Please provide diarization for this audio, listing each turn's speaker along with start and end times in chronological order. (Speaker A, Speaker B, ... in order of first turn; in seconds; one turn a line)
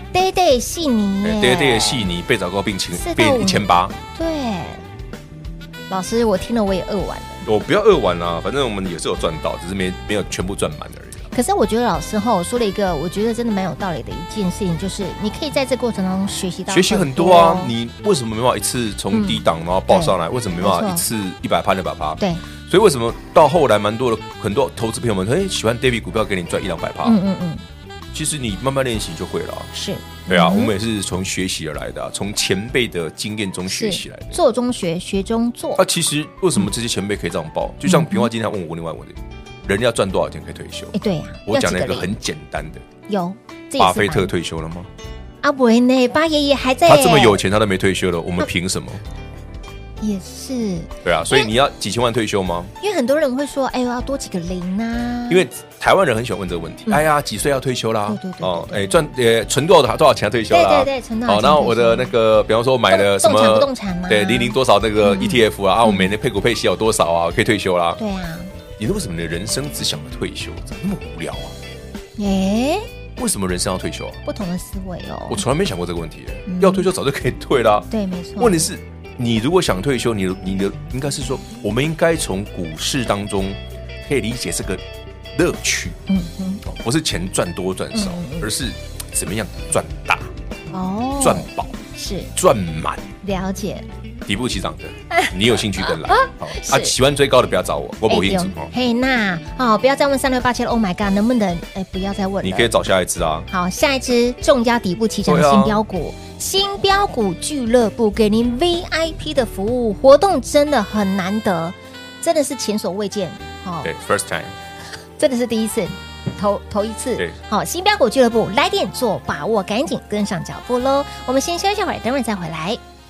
Speaker A: 0.1-2.1
Speaker B: 1.2-4.0
Speaker A: 2.9-4.8
Speaker A: 5.9-7.4
Speaker B: 7.4-11.3
Speaker A: 11.3-17.7
Speaker B: 16.7-27.2
Speaker A: 19.1-21.0
Speaker A: 27.0-27.6
Speaker B: 28.1-29.7
Speaker A: 29.7-30.7
Speaker B: 30.3-34.4
Speaker A: 33.7-35.8
Speaker B: 35.8-40.9
Speaker A: 37.9-38.3
Speaker A: 40.9-42.1
Speaker B: 41.5-42.8
Speaker A: 43.1-44.3
Speaker B: 43.8-44.9
Speaker A: 45.4-47.4
Speaker B: 46.9-49.0
Speaker A: 50.0-51.5
Speaker B: 51.0-52.7
Speaker A: 52.8-55.5
Speaker B: 55.3-68.0
Speaker A: 58.1-59.0
Speaker A: 60.5-62.1
Speaker A: 62.9-66.1
Speaker A: 68.0-68.5
Speaker B: 68.8-71.5
Speaker A: 72.2-72.8
Speaker B: 73.2-74.2
Speaker A: 74.2-75.4
Speaker B: 75.3-84.8
Speaker A: 76.5-76.9
Speaker A: 77.9-78.7
Speaker B: 85.3-86.0
Speaker A: 86.1-86.6
Speaker B: 86.6-90.3
Speaker A: 87.9-88.5
Speaker A: 90.7-92.3
Speaker B: 91.2-91.8
Speaker B: 92.3-93.1
Speaker A: 93.2-93.8
Speaker B: 94.2-98.7
Speaker A: 95.1-96.9
Speaker A: 98.1-102.7
Speaker B: 102.4-103.5
Speaker A: 103.5-113.9
Speaker B: 105.2-105.8
Speaker B: 113.8-114.5
Speaker A: 115.2-122.8